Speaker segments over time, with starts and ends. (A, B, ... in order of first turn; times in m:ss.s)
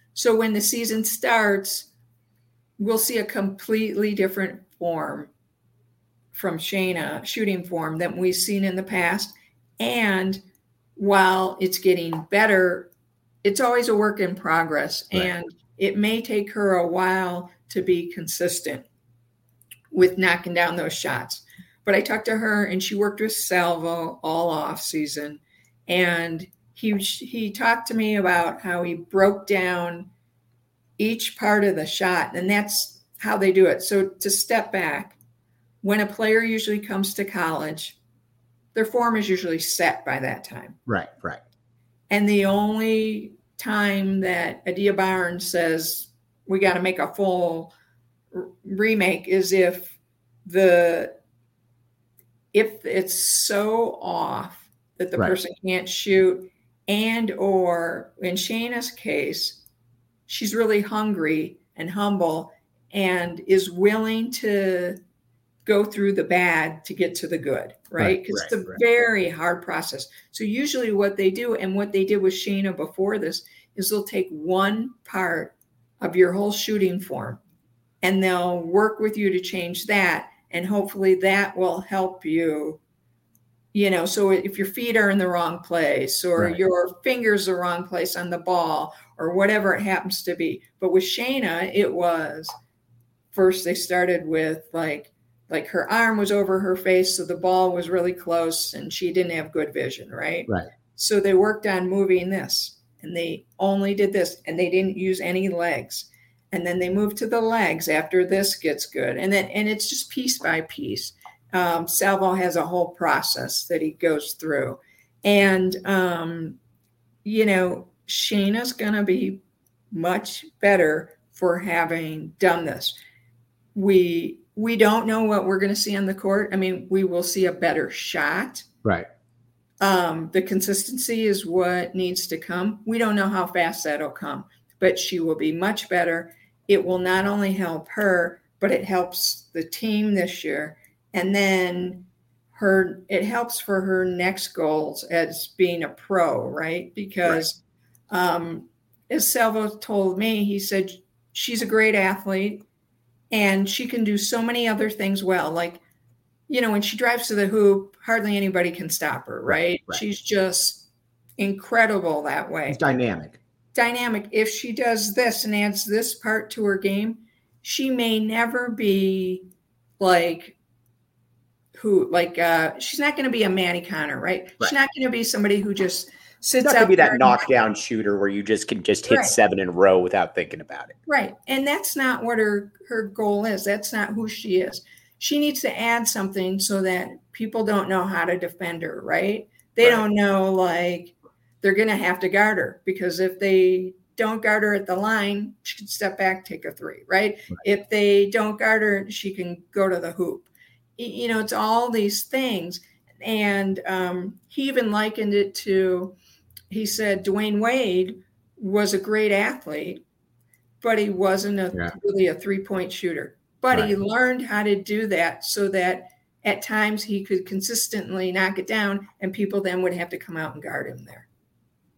0:00.1-0:01.9 A
0:02.8-0:05.3 A
0:06.3-0:10.4 A
0:11.0-0:12.9 A
0:13.4-0:18.9 A
0:19.9-0:30.1 A
0:31.0-0:35.2 A
0:35.8-0:38.0 A
0:38.7-0:40.8 A
0:40.9-0:41.4 B
0:42.1-0:47.7 A
0:48.3-0:51.1 A
0:52.5-0:59.6 A
1:00.3-1:05.0 A
1:05.6-1:17.4 A
1:08.0-1:08.7 B
1:18.0-1:22.8 A
1:23.7-1:32.5 A
1:33.3-1:56.6 A
1:57.2-1:59.4 A
1:59.9-2:02.9 A
2:03.7-2:08.6 A
2:09.8-2:27.6 A
2:28.1-2:32.6 A
2:33.3-2:35.8 A
2:36.5-2:40.9 A
2:39.5-2:40.0 B
2:41.4-2:42.8 A
2:42.7-2:43.4 B
2:43.7-2:49.5 A
2:50.0-2:50.6 A
2:51.7-2:57.4 A
2:56.6-3:00.9 B
2:59.1-2:59.4 A
3:01.1-3:26.1 A
3:26.7-3:30.0 A
3:30.8-3:41.3 A